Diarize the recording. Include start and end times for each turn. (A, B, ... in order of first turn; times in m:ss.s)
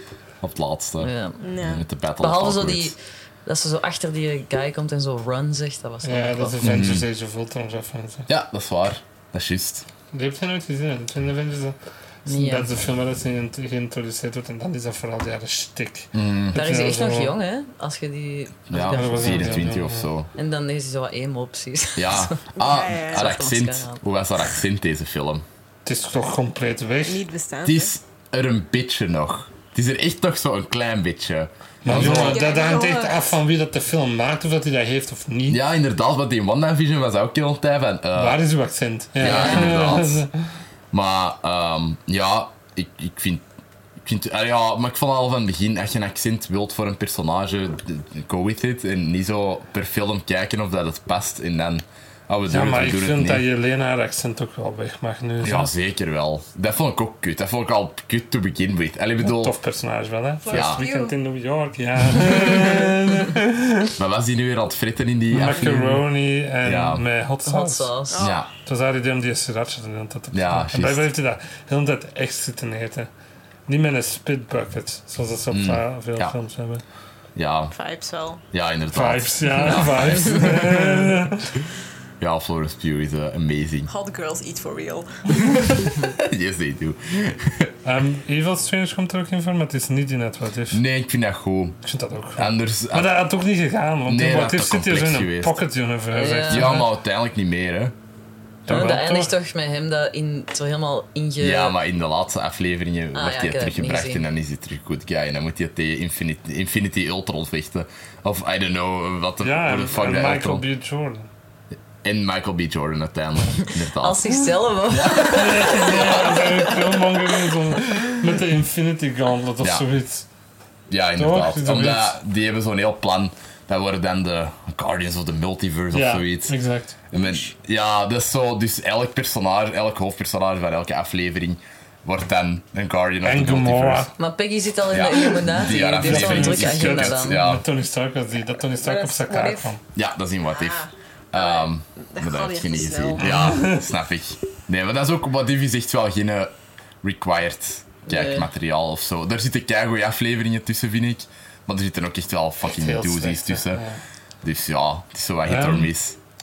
0:00.4-0:02.9 A
0:01.0-0:01.4 B
0:01.4-0:01.8 C
0:02.2-0:07.0 B
0:06.0-0:08.3 D
0:06.6-0:07.1 A
0:08.3-0:09.8 A
0:10.1-0:17.4 D
0:12.2-0:12.7 B
0:16.1-0:16.6 A
0:16.5-0:19.7 B
0:18.7-0:20.3 A
0:18.7-0:20.1 D
0:20.3-0:22.4 B
0:22.0-0:25.4 A
0:22.5-0:23.3 C
0:23.0-0:24.0 B
0:25.8-0:27.2 D
0:27.0-0:27.9 C
0:27.6-0:32.5 A
0:31.8-0:35.6 D
0:31.9-0:33.4 C
0:35.5-0:38.4 A
0:38.2-0:40.3 D
0:39.2-0:40.2 A
0:39.2-0:39.9 B
0:40.9-0:43.4 A
0:44.0-0:53.4 A
0:52.5-0:55.7 D
0:55.4-0:59.6 A
0:59.2-1:03.9 D
1:00.4-1:01.2 C
1:00.5-1:00.8 A
1:02.4-1:02.9 A
1:04.0-1:06.0 A
1:05.3-1:07.9 D
1:06.6-1:07.0 A
1:07.4-1:08.3 B
1:08.1-1:08.4 C
1:08.2-1:08.5 A
1:08.6-1:13.1 D
1:10.3-1:11.1 A
1:13.7-1:16.8 D
1:15.5-1:16.4 A
1:17.4-1:17.7 A
1:17.7-1:18.4 C
1:18.5-1:21.3 A
1:18.9-1:21.5 D
1:22.2-1:23.9 A
1:23.9-1:25.9 C
1:25.4-1:27.7 A
1:27.8-1:30.8 D
1:30.7-1:31.8 A
1:31.8-1:36.9 D
1:32.4-1:33.1 A
1:34.1-1:35.6 A
1:36.1-1:36.8 B
1:36.5-1:37.9 A
1:38.6-1:39.3 D
1:38.7-1:41.8 B
1:41.4-1:50.6 A
1:43.1-1:44.3 B
1:49.4-1:51.3 D
1:52.0-1:54.4 A
1:53.8-1:55.8 B
1:54.9-1:56.6 A
1:55.2-2:00.2 D
1:59.6-1:59.8 A
2:00.9-2:06.6 A
2:01.1-2:02.1 D
2:05.9-2:07.0 D
2:07.1-2:14.1 A
2:13.2-2:14.1 D
2:14.2-2:17.4 B
2:14.9-2:17.6 A
2:15.6-2:19.8 D
2:18.8-2:19.7 C
2:19.9-2:33.8 A
2:20.5-2:23.4 C
2:23.2-2:23.9 D
2:28.1-2:28.5 B
2:32.6-2:34.0 D
2:34.4-2:36.2 A
2:35.4-2:35.9 D